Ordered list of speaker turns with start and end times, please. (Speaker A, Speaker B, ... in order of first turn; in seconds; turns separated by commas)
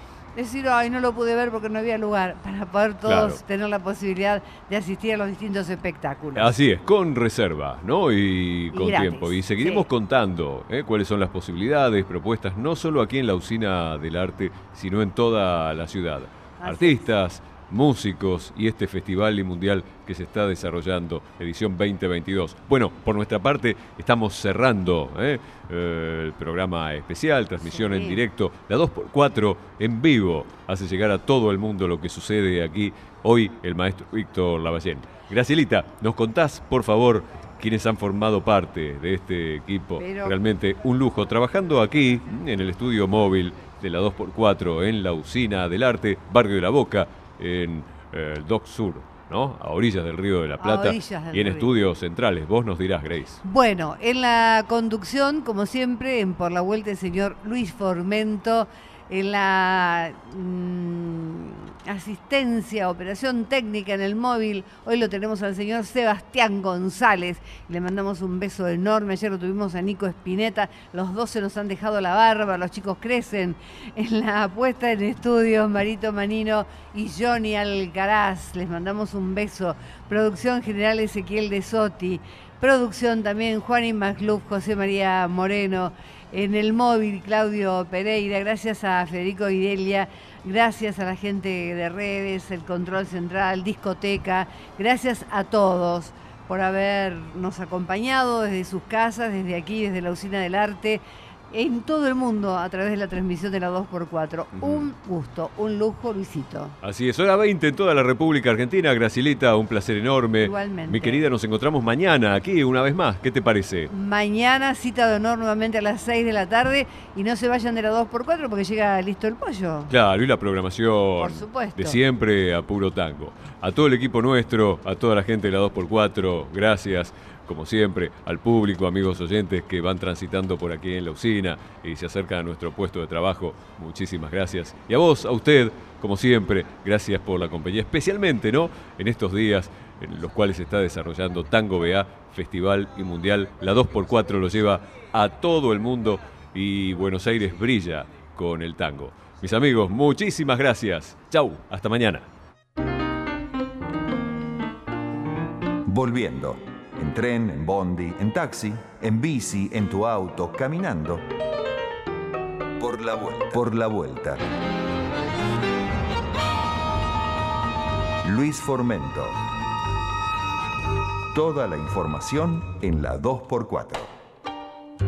Speaker A: 0.3-6.5, Speaker B: 3.0-3.4, Speaker B: 6.4-53.4, Speaker A: 8.7-9.9, Speaker A: 16.6-17.1, Speaker A: 27.6-28.2, Speaker A: 40.0-40.4, Speaker A: 50.6-51.7, Speaker A: 53.5-106.8, Speaker B: 104.6-104.9, Speaker B: 106.8-113.9, Speaker A: 110.4-111.2, Speaker A: 113.9-119.9, Speaker B: 119.9-152.3, Speaker A: 121.2-122.0, Speaker C: 155.9-161.3, Speaker C: 162.8-164.4, Speaker C: 168.2-169.4, Speaker C: 171.3-174.1